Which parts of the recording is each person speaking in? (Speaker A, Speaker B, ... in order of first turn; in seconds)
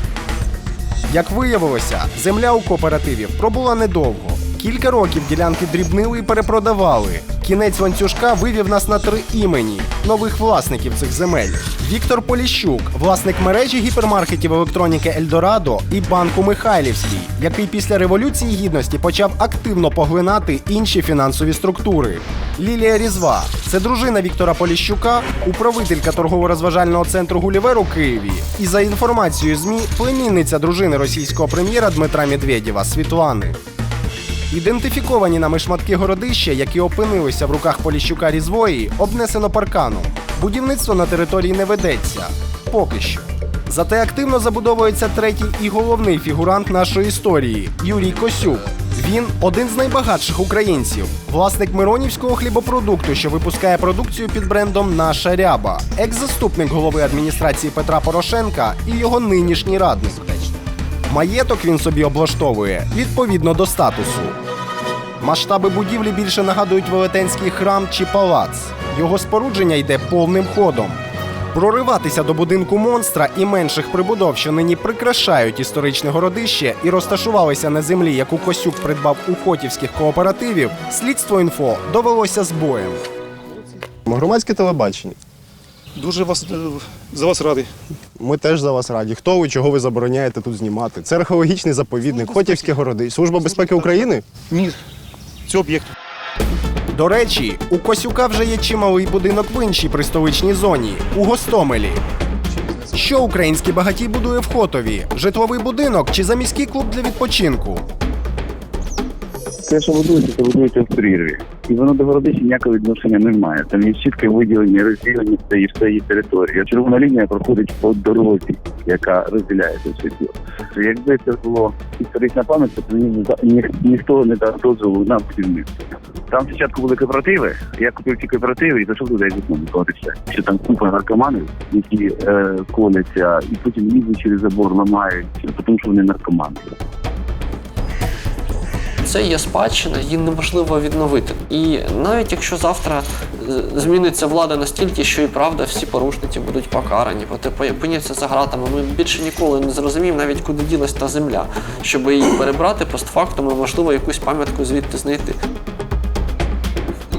Speaker A: 1.1-33.6, 34.5-60.5, 61.1-64.4, 65.2-71.0, 71.5-83.0, 88.6-89.7, 90.3-90.9, 92.1-92.7, 93.5-94.1, 96.9-102.0, 102.9-107.8
Speaker B: 84.1-85.1, 88.2-94.2
Speaker C: 86.0-87.7, 93.7-93.9, 95.5-95.9
Speaker D: 109.7-125.7, 126.3-136.7
Speaker E: 139.0-155.4